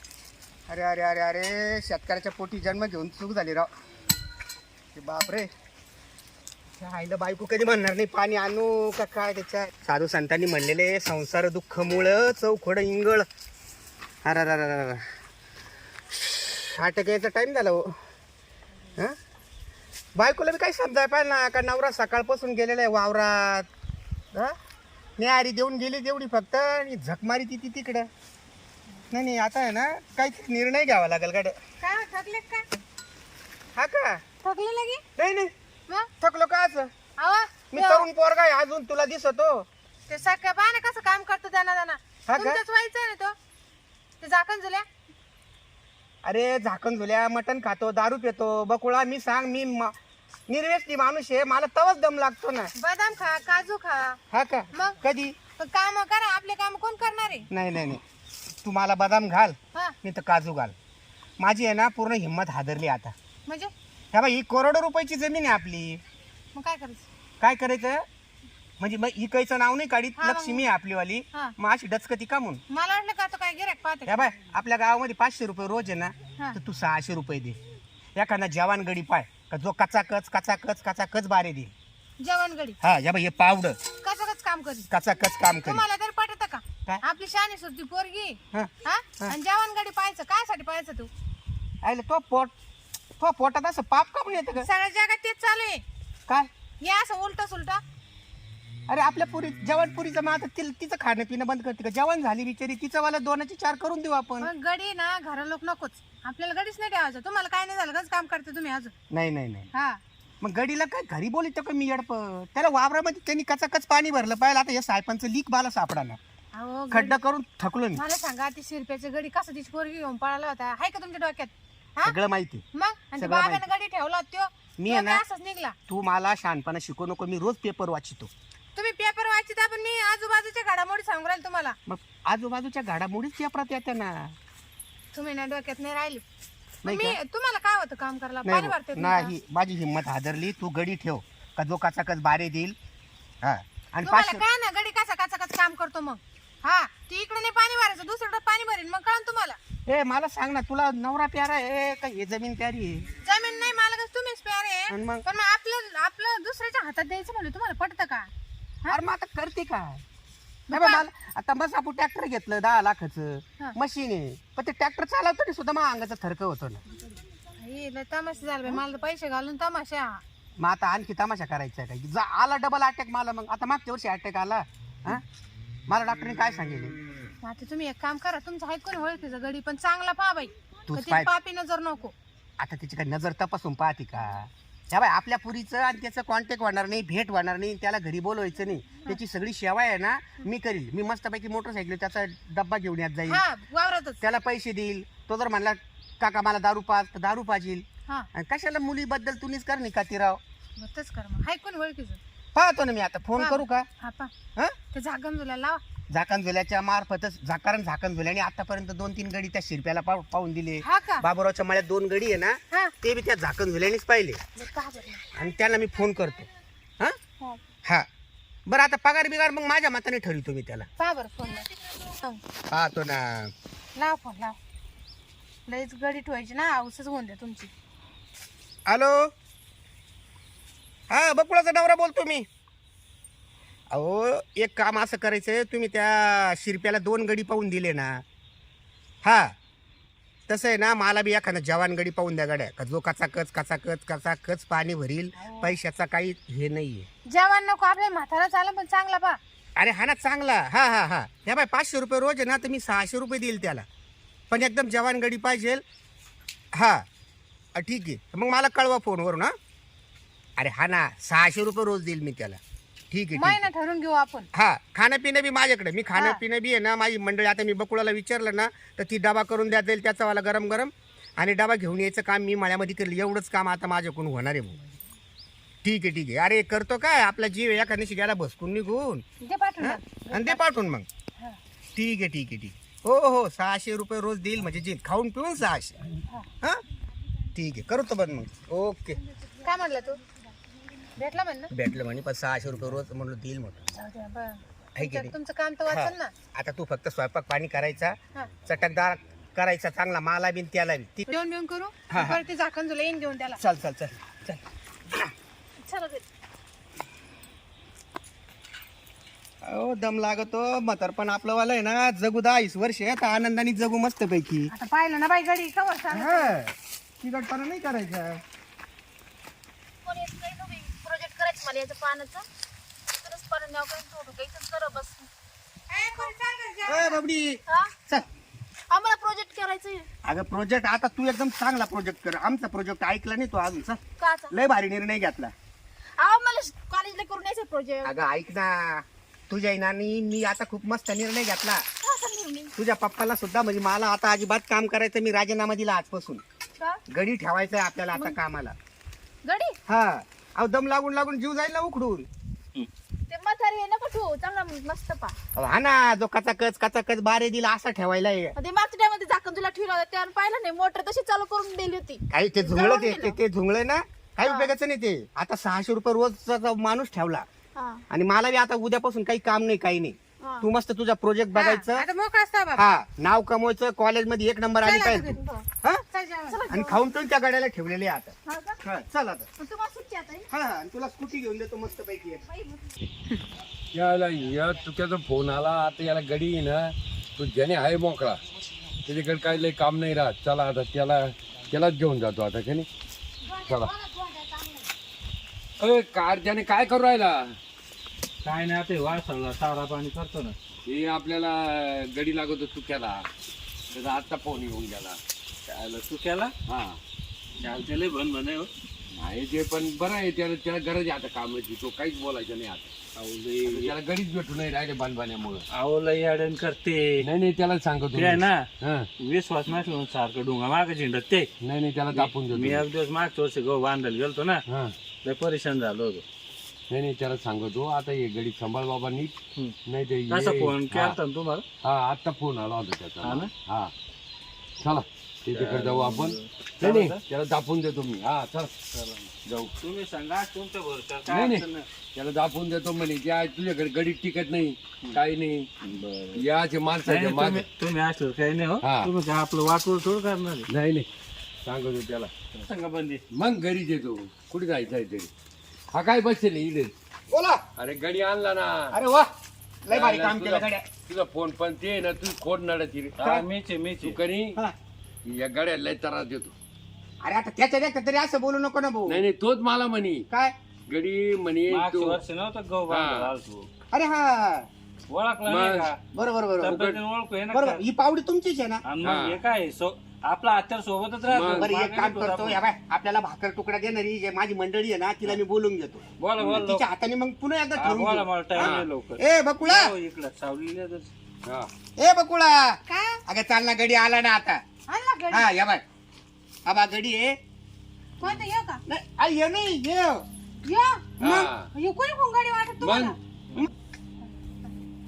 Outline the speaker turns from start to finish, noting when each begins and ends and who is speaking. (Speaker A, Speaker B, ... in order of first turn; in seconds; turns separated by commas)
Speaker A: 0.7-3.7, Speaker A: 5.0-5.5, Speaker A: 6.8-13.3, Speaker A: 14.2-15.1, Speaker A: 16.1-18.0, Speaker A: 20.1-23.7, Speaker A: 25.2-28.1, Speaker A: 29.1-31.6, Speaker B: 31.8-32.7, Speaker A: 33.8-34.2, Speaker B: 34.4-35.0, Speaker A: 35.2-35.5, Speaker A: 36.2-36.9, Speaker B: 37.2-38.1, Speaker A: 37.7-39.7, Speaker B: 40.1-43.4, Speaker A: 42.3-42.6, Speaker B: 44.2-44.9, Speaker A: 46.2-49.9, Speaker A: 50.5-52.7, Speaker B: 52.8-54.2, Speaker A: 54.3-55.4, Speaker B: 54.7-55.0, Speaker B: 55.6-57.5, Speaker A: 57.5-58.0, Speaker A: 58.6-60.7, Speaker A: 61.4-63.1, Speaker B: 63.5-63.7, Speaker A: 64.1-66.0, Speaker B: 66.5-67.1, Speaker A: 67.4-68.1, Speaker A: 68.8-72.6, Speaker B: 70.2-70.6, Speaker B: 72.7-74.2, Speaker A: 74.1-77.6, Speaker A: 78.2-81.7, Speaker B: 82.2-82.8, Speaker A: 82.8-83.8, Speaker B: 84.0-84.9, Speaker A: 84.9-85.8, Speaker B: 85.6-91.1, Speaker A: 88.5-89.4, Speaker A: 91.8-92.5, Speaker A: 93.2-94.7, Speaker B: 94.5-95.8, Speaker B: 96.8-97.8, Speaker A: 98.9-104.5, Speaker B: 104.4-108.9, Speaker A: 109.1-109.7, Speaker B: 109.7-110.0, Speaker A: 110.4-116.2, Speaker B: 116.5-117.2, Speaker A: 116.9-118.0, Speaker B: 118.0-122.2, Speaker A: 122.0-122.6, Speaker B: 122.8-125.8, Speaker A: 123.2-123.7, Speaker A: 124.8-125.2, Speaker A: 125.9-128.3, Speaker B: 128.8-131.8, Speaker A: 131.9-134.3, Speaker B: 135.1-136.2, Speaker A: 136.8-137.2, Speaker B: 136.9-139.3, Speaker A: 138.4-142.8, Speaker A: 143.4-144.4, Speaker B: 144.0-149.6, Speaker A: 149.9-153.1, Speaker B: 153.2-158.3, Speaker A: 154.9-155.3, Speaker A: 158.9-160.0, Speaker B: 160.7-161.0, Speaker A: 160.7-166.8, Speaker B: 167.6-170.2, Speaker A: 170.6-175.2, Speaker A: 175.9-177.0, Speaker B: 177.4-182.1, Speaker A: 180.9-181.3, Speaker A: 182.6-193.4, Speaker B: 193.3-194.2, Speaker A: 194.2-200.4, Speaker B: 200.8-202.2, Speaker A: 202.6-203.9, Speaker B: 203.4-204.3, Speaker B: 204.9-205.8, Speaker A: 206.1-214.4, Speaker B: 210.8-211.2, Speaker B: 214.6-215.3, Speaker A: 215.3-216.5, Speaker A: 218.7-220.9, Speaker B: 221.0-222.4, Speaker A: 222.7-223.5, Speaker B: 223.9-224.6, Speaker B: 225.7-227.7, Speaker A: 228.9-229.3, Speaker A: 231.1-232.5, Speaker A: 233.9-238.2, Speaker A: 239.2-239.5, Speaker A: 240.5-247.1, Speaker B: 245.4-245.8, Speaker B: 247.3-249.4, Speaker A: 249.8-253.9, Speaker A: 254.5-255.8, Speaker A: 256.7-257.1, Speaker A: 257.8-259.5, Speaker A: 260.6-262.6, Speaker A: 263.1-263.7, Speaker B: 263.4-264.5, Speaker A: 264.5-274.8, Speaker B: 266.1-266.4, Speaker A: 275.8-279.2, Speaker B: 279.4-280.6, Speaker A: 279.8-281.1, Speaker A: 282.0-286.0, Speaker A: 287.5-289.2, Speaker B: 289.6-290.2, Speaker B: 291.2-291.7, Speaker A: 291.7-293.8, Speaker B: 293.9-296.3, Speaker A: 295.0-295.4, Speaker A: 295.9-301.3, Speaker C: 298.8-299.1, Speaker B: 301.3-303.6, Speaker A: 302.1-302.4, Speaker A: 303.6-305.3, Speaker D: 305.8-306.2, Speaker A: 309.6-314.7, Speaker B: 314.7-316.6, Speaker A: 316.1-318.4, Speaker D: 320.0-322.5, Speaker D: 323.2-325.3, Speaker B: 325.9-327.2, Speaker A: 326.9-328.3, Speaker D: 328.9-330.1, Speaker A: 330.2-335.5, Speaker D: 334.2-334.5, Speaker D: 336.2-338.1, Speaker A: 338.0-341.9, Speaker D: 342.0-342.7, Speaker A: 342.8-346.4, Speaker A: 347.1-348.8, Speaker D: 349.4-349.8, Speaker A: 349.9-352.3, Speaker D: 353.3-355.4, Speaker A: 355.6-358.6, Speaker D: 358.6-363.4, Speaker A: 362.3-367.4, Speaker D: 364.4-364.7, Speaker D: 367.8-368.0, Speaker A: 368.1-372.1, Speaker D: 370.4-370.7, Speaker B: 371.5-372.9, Speaker A: 372.8-376.0, Speaker B: 374.8-375.4, Speaker B: 376.1-376.6, Speaker D: 376.5-377.1, Speaker A: 376.7-379.5, Speaker D: 378.5-378.8, Speaker D: 379.6-380.5, Speaker A: 380.5-382.4, Speaker D: 382.4-382.9, Speaker C: 383.9-388.4, Speaker C: 389.1-392.9, Speaker B: 393.4-394.9, Speaker C: 395.8-397.6, Speaker E: 398.4-400.6, Speaker C: 400.9-403.3, Speaker C: 403.9-405.2, Speaker E: 405.7-406.5, Speaker C: 406.7-407.0, Speaker E: 407.6-408.7, Speaker C: 409.1-412.9, Speaker E: 413.1-413.9, Speaker C: 413.6-415.7, Speaker E: 415.7-417.3, Speaker C: 417.2-419.1, Speaker E: 418.1-418.7, Speaker E: 419.2-421.5, Speaker C: 421.6-422.9, Speaker E: 422.1-424.6, Speaker C: 424.7-425.0, Speaker E: 425.2-426.2, Speaker C: 426.9-431.2, Speaker E: 430.3-431.6, Speaker C: 431.8-433.9, Speaker E: 433.2-433.5, Speaker C: 434.8-438.7, Speaker E: 435.5-437.2, Speaker E: 438.9-441.9, Speaker C: 439.4-439.7, Speaker C: 441.2-445.7, Speaker E: 445.8-446.4, Speaker C: 446.4-447.7, Speaker E: 447.1-450.7, Speaker C: 448.8-449.1, Speaker C: 450.7-451.1, Speaker C: 451.6-452.3, Speaker E: 452.5-453.2, Speaker C: 453.3-455.3, Speaker C: 455.9-456.9, Speaker A: 457.3-457.6, Speaker C: 457.8-458.9, Speaker A: 458.9-459.3, Speaker A: 459.9-460.9, Speaker C: 459.9-463.4, Speaker E: 463.2-464.2, Speaker C: 464.0-464.6, Speaker C: 465.2-466.6, Speaker A: 467.2-469.2, Speaker C: 469.1-470.2, Speaker C: 470.9-472.2, Speaker E: 471.7-473.7, Speaker C: 472.9-473.3, Speaker A: 473.9-474.7, Speaker E: 475.1-476.0, Speaker C: 475.5-475.9, Speaker A: 476.1-476.8, Speaker E: 476.6-477.8, Speaker C: 476.6-477.0, Speaker A: 477.5-478.8, Speaker E: 478.8-482.6, Speaker C: 479.0-479.4, Speaker C: 481.2-481.7, Speaker A: 481.6-489.9, Speaker E: 486.2-486.9, Speaker C: 486.4-486.7, Speaker E: 487.8-491.1, Speaker C: 488.5-488.9, Speaker C: 491.4-491.7, Speaker A: 492.0-494.6, Speaker B: 492.9-493.2, Speaker B: 494.9-495.5, Speaker A: 495.3-495.8, Speaker A: 496.7-497.4, Speaker B: 498.2-498.8, Speaker A: 498.9-500.2, Speaker B: 500.7-501.1, Speaker A: 501.2-501.5, Speaker C: 501.2-501.7, Speaker B: 501.8-503.2, Speaker C: 502.8-503.7, Speaker B: 504.2-504.7